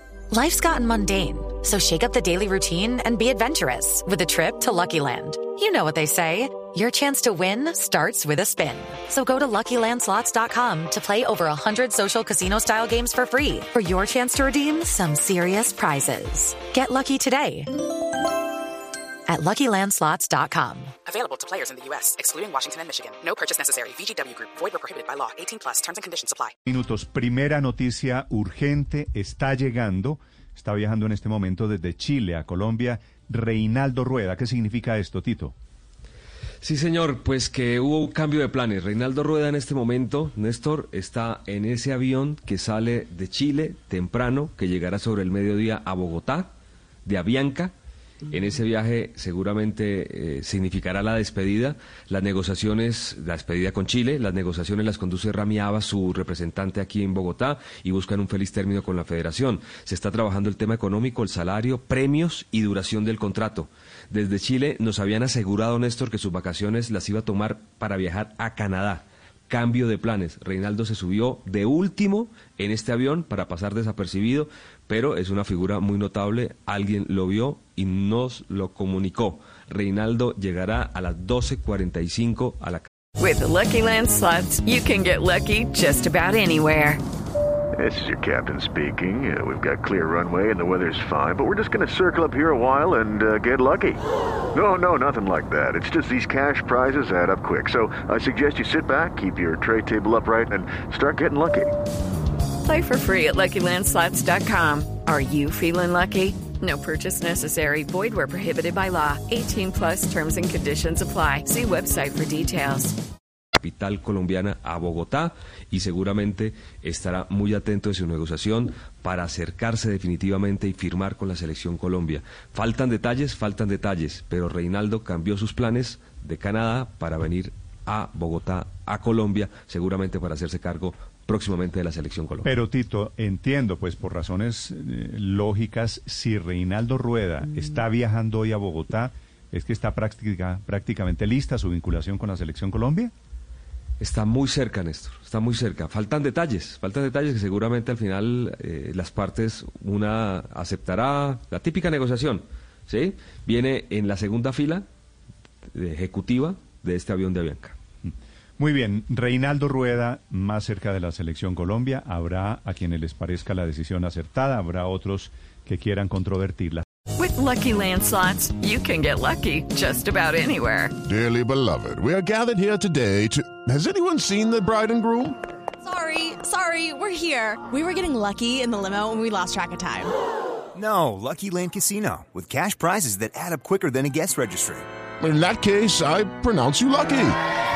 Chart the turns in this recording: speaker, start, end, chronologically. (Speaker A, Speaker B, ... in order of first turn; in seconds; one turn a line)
Speaker A: 0.3-17.7
Speaker A: 19.3-20.9
Speaker B: 21.1-26.5
Speaker C: 26.6-35.5
Speaker D: 36.6-46.5
Speaker D: 47.0-47.7
Speaker D: 48.3-82.9
Speaker E: 83.2-87.0
Speaker F: 87.7-94.0
Speaker F: 94.5-101.7
Speaker E: 102.6-113.0
Speaker D: 113.6-132.5
Speaker C: 132.4-143.1
Speaker D: 144.0-154.8
Speaker D: 155.7-157.8
Speaker C: 158.0-166.8
Speaker E: 167.2-170.9
Speaker G: 171.1-175.3
Speaker H: 175.8-180.1
Speaker I: 180.7-184.8
Speaker G: 185.2-187.4